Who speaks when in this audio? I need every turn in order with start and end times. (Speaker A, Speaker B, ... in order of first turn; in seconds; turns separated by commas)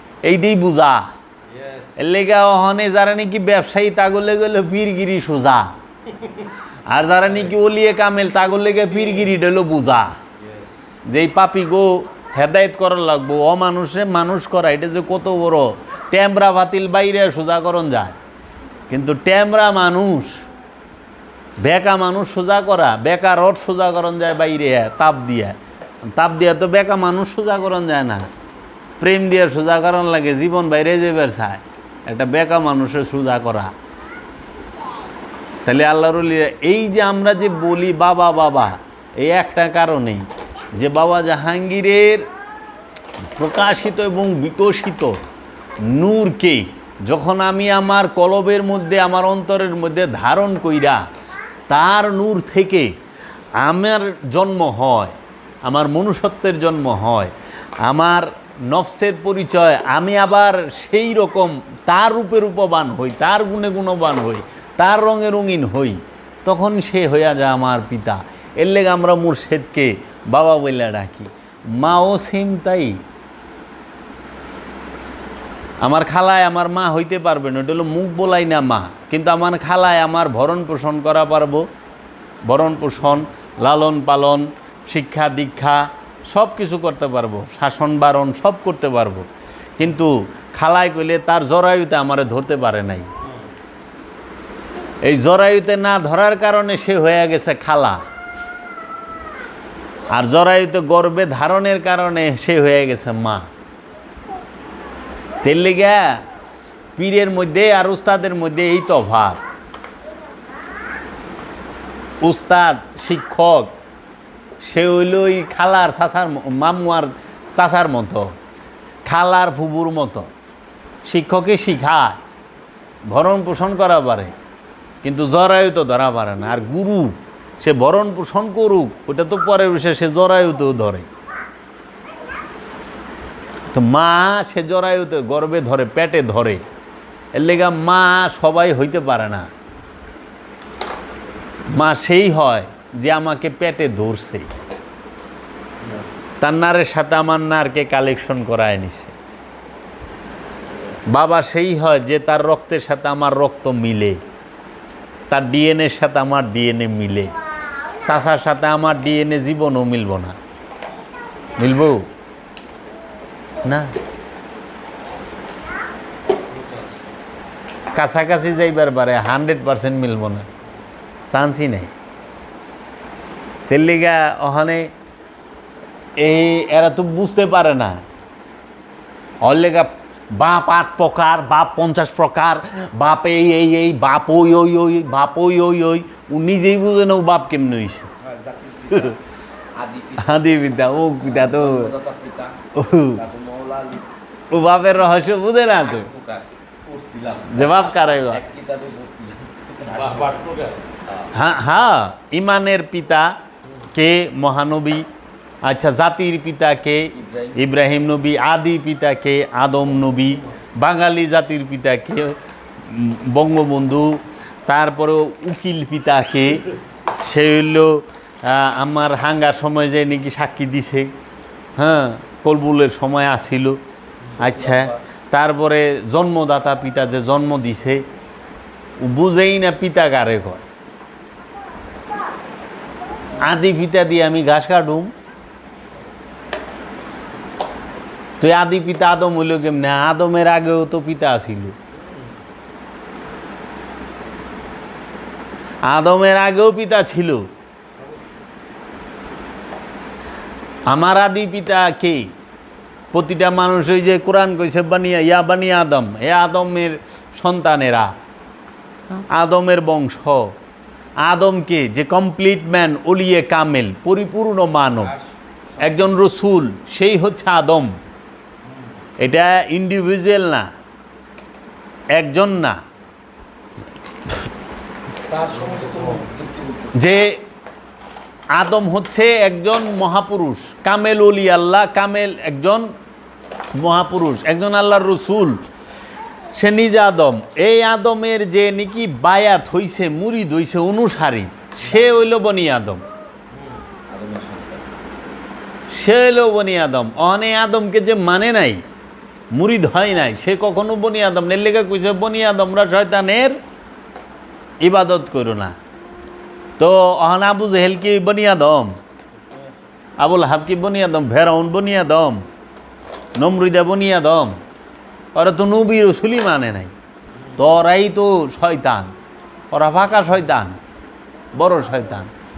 Speaker A: 0.2-1.1, Speaker B: 1.5-2.0, Speaker A: 2.0-5.7, Speaker A: 6.9-10.2, Speaker B: 10.4-10.8, Speaker A: 11.1-18.1, Speaker A: 18.9-20.4, Speaker A: 21.6-25.6, Speaker A: 26.1-28.3, Speaker A: 29.0-33.7, Speaker A: 35.6-42.3, Speaker A: 43.3-45.2, Speaker A: 45.8-51.0, Speaker A: 51.7-52.9, Speaker A: 53.6-73.0, Speaker A: 75.8-81.6, Speaker A: 82.5-89.2, Speaker A: 89.8-93.1, Speaker A: 95.0-98.0, Speaker A: 100.1-103.5, Speaker A: 105.4-106.2, Speaker A: 107.0-109.4, Speaker A: 112.2-113.7, Speaker A: 114.6-118.3, Speaker A: 119.0-120.3, Speaker A: 121.0-122.2, Speaker A: 123.1-124.3, Speaker A: 125.0-131.1, Speaker A: 133.7-136.6, Speaker A: 137.3-139.5, Speaker A: 141.7-144.5, Speaker A: 146.4-149.1, Speaker A: 151.1-154.2, Speaker A: 155.3-157.3, Speaker A: 158.0-160.4, Speaker A: 161.6-162.1, Speaker A: 163.6-163.9, Speaker B: 166.5-166.9, Speaker A: 167.9-170.5, Speaker A: 171.3-171.9, Speaker A: 173.7-174.9, Speaker A: 176.2-178.0, Speaker A: 179.4-188.1, Speaker C: 188.2-189.2, Speaker C: 189.7-194.1, Speaker A: 190.2-191.9, Speaker A: 192.7-193.2, Speaker A: 194.5-196.1, Speaker C: 195.8-200.4, Speaker A: 197.5-198.4, Speaker B: 200.0-200.8, Speaker A: 201.3-203.3, Speaker A: 203.9-205.1, Speaker A: 205.6-221.1, Speaker C: 207.1-207.6, Speaker A: 221.8-223.8, Speaker C: 224.4-225.0, Speaker A: 224.4-228.0, Speaker A: 229.0-230.6, Speaker A: 233.3-235.1, Speaker A: 238.4-241.8, Speaker A: 245.9-247.4, Speaker B: 248.0-248.2, Speaker A: 250.9-252.3, Speaker A: 253.1-258.1, Speaker A: 259.3-260.5, Speaker A: 261.2-265.1, Speaker C: 265.1-266.1, Speaker A: 265.8-267.9, Speaker C: 268.7-268.9, Speaker A: 269.2-270.7, Speaker A: 272.1-272.8, Speaker C: 275.3-277.1, Speaker A: 276.9-277.4, Speaker A: 278.5-282.9, Speaker A: 283.7-285.6, Speaker A: 286.5-293.1, Speaker C: 293.9-294.9, Speaker A: 295.9-298.8, Speaker A: 299.5-303.6, Speaker A: 304.8-305.8, Speaker A: 306.8-309.0, Speaker C: 309.3-309.8, Speaker A: 310.2-312.4, Speaker A: 313.4-314.6, Speaker A: 315.3-316.9, Speaker A: 317.6-319.1, Speaker A: 319.7-320.8, Speaker A: 321.5-322.3